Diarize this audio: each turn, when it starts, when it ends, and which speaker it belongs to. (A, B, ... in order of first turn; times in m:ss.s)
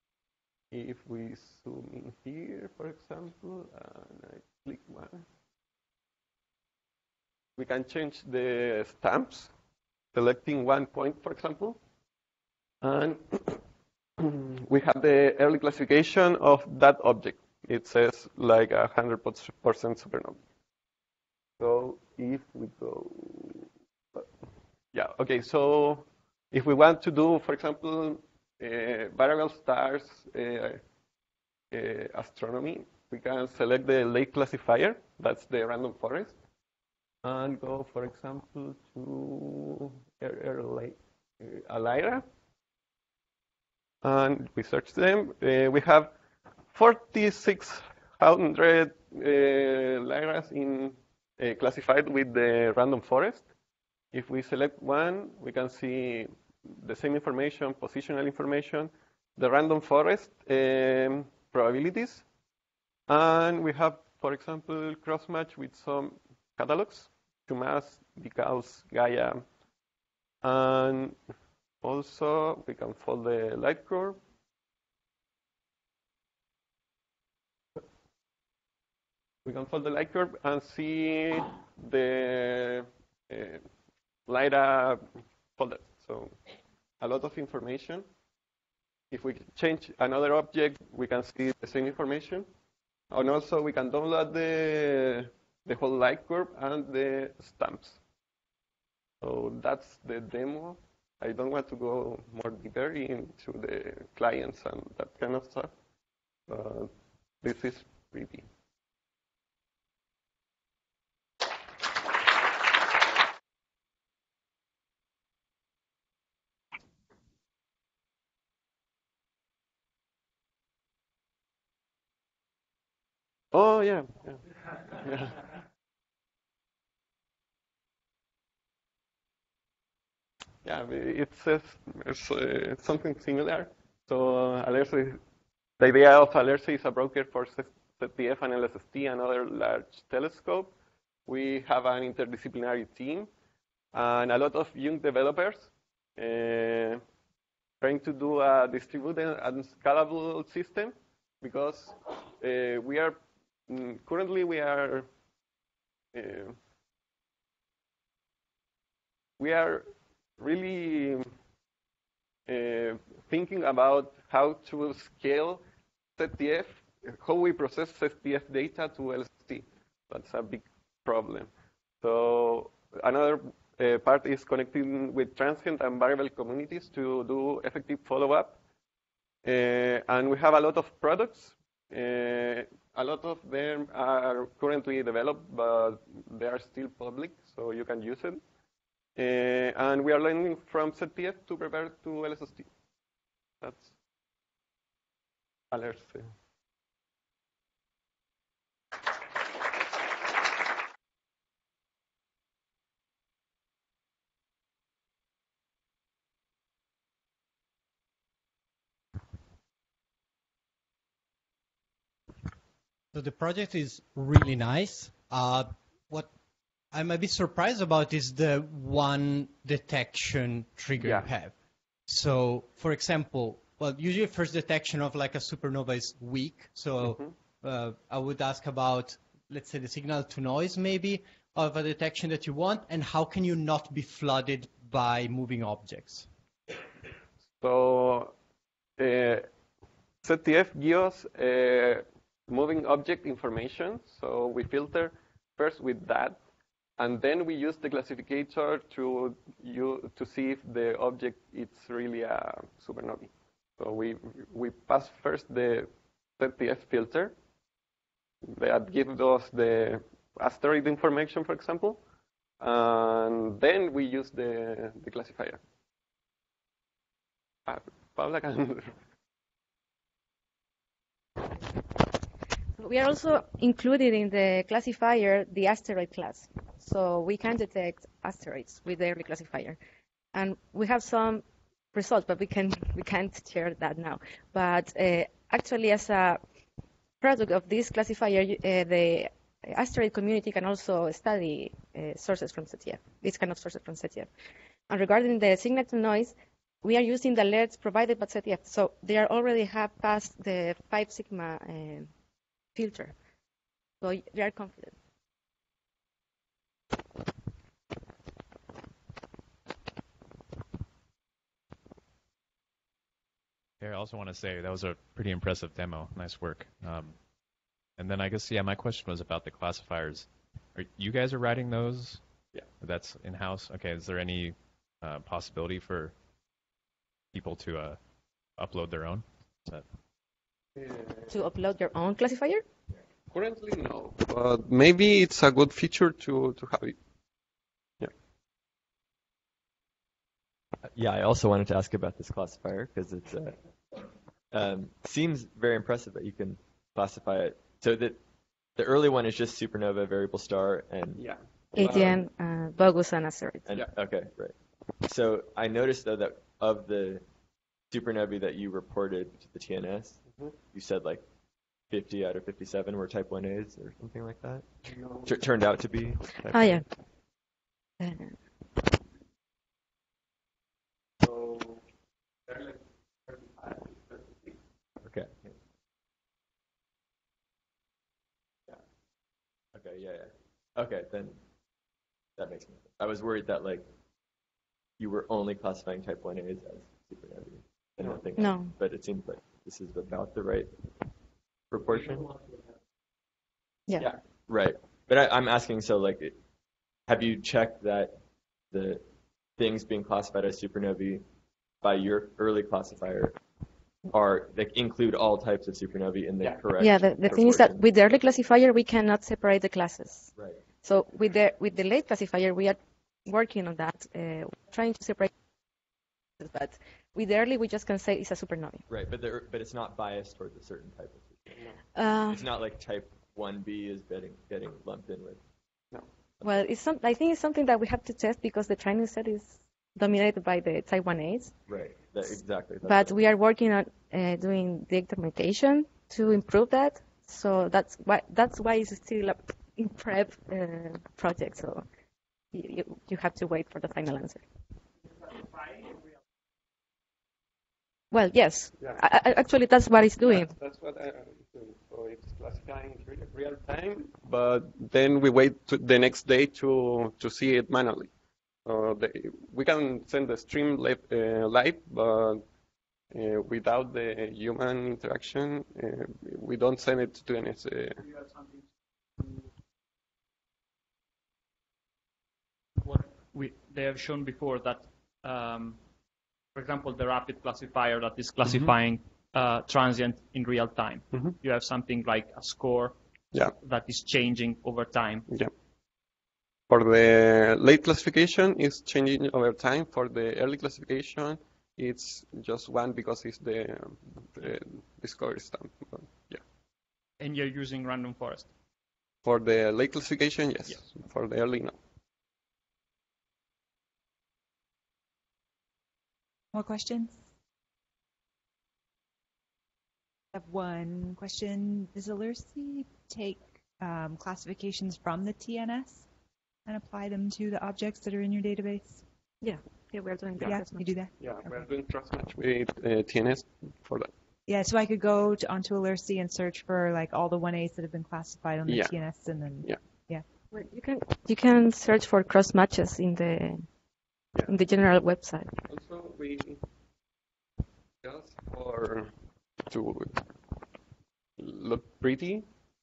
0:00.7-0:05.2 A
0:07.6-0:09.5 A
0:10.1-0:11.8 A
0:12.8-0:13.6 A
0:14.2-0:20.4 A
0:21.6-0:24.3 A
0:24.9-0:30.8 A
0:31.7-0:36.4 A
0:37.2-0:42.2 A
0:44.0-0:46.1 A
0:46.7-0:53.5 A
0:54.1-1:02.2 A
1:03.1-1:09.4 A
1:10.4-1:11.2 A
1:11.8-1:14.2 A
1:19.4-1:23.6 A
1:24.3-1:25.0 A
1:25.6-1:26.3 A
1:27.0-1:28.0 A
1:29.1-1:32.5 A
1:33.1-1:38.0 A
1:39.2-1:45.7 A
1:46.5-1:46.9 A
1:47.4-1:48.5 A
2:03.5-2:04.4 A
2:04.9-2:05.4 A
2:10.6-2:15.2 A
2:15.8-2:20.7 A
2:21.3-2:23.3 A
2:23.9-2:27.0 A
2:27.8-2:35.1 A
2:36.1-2:36.6 A
2:39.4-2:39.9 A
2:40.4-2:41.2 A
2:42.5-2:45.6 A
2:46.2-2:51.5 A
2:52.0-2:58.6 A
2:59.4-3:08.4 A
3:09.2-3:12.7 A
3:13.6-3:13.9 A
3:15.7-3:16.3 A
3:33.1-3:36.3 B
3:36.9-3:41.5 B
3:41.0-3:41.3 A
3:42.1-3:56.3 B
3:47.0-3:47.3 A
3:57.5-3:58.3 A
3:59.0-3:59.4 A
4:00.2-4:06.4 A
4:07.0-4:17.3 A
4:18.4-4:22.0 A
4:22.6-4:25.6 A
4:27.7-4:28.9 A
4:32.8-4:39.8 C
4:40.3-4:46.4 C
4:47.2-4:54.3 C
4:54.9-5:02.1 C
5:02.7-5:03.1 C
5:04.0-5:05.0 C
5:13.8-5:17.2 D
5:18.0-5:22.2 D
5:22.8-5:26.1 D
5:27.3-5:28.0 D
5:28.6-5:29.8 D
5:30.8-5:31.4 A
5:31.3-5:32.6 C
5:33.3-5:37.0 A
5:40.9-5:48.2 E
5:48.8-5:51.2 E
5:51.2-5:52.2 A
5:51.7-5:53.7 C
5:51.8-5:52.1 E
5:53.7-5:57.2 E
5:57.9-6:01.2 E
6:01.9-6:06.8 E
6:04.8-6:05.3 A
6:06.5-6:06.8 C
6:08.0-6:08.3 C
6:11.2-6:11.8 A
6:12.5-6:14.6 A
6:15.0-6:15.5 E
6:19.7-6:21.4 E
6:22.4-6:23.9 E
6:25.0-6:30.7 E
6:28.4-6:28.7 C
6:31.7-6:32.3 E
6:34.5-6:36.4 E
6:37.1-6:38.1 E
6:38.7-6:39.0 E
6:39.6-6:41.2 E
6:41.8-6:43.4 E
6:44.1-6:47.8 E
6:46.8-6:50.3 C
6:50.4-6:50.6 E
6:50.8-6:55.3 C
6:56.4-6:58.8 C
6:58.9-7:01.6 E
7:01.9-7:02.4 C
7:02.3-7:05.4 E
7:06.4-7:11.5 C
7:11.7-7:13.2 E
7:12.8-7:21.8 C
7:22.5-7:24.4 C
7:28.1-7:30.5 C
7:30.2-7:38.1 A
7:38.6-7:42.4 A
7:43.1-7:48.0 A
7:48.1-7:48.6 F
7:52.8-7:55.8 F
7:56.5-8:05.2 F
7:58.4-7:58.7 A
8:06.7-8:16.4 A
8:17.2-8:18.5 F
8:19.2-8:21.8 A
8:26.5-8:27.2 G
8:30.3-8:36.1 G
8:36.6-8:39.0 G
8:39.4-8:40.9 C
8:40.4-8:41.5 G
8:41.2-8:44.1 A
8:44.5-8:50.2 G
8:48.6-8:48.9 A
8:50.5-8:53.6 C
8:54.4-8:55.5 C
8:55.7-8:56.6 A
8:58.0-8:59.1 A
8:59.7-9:00.3 A
9:01.4-9:02.4 A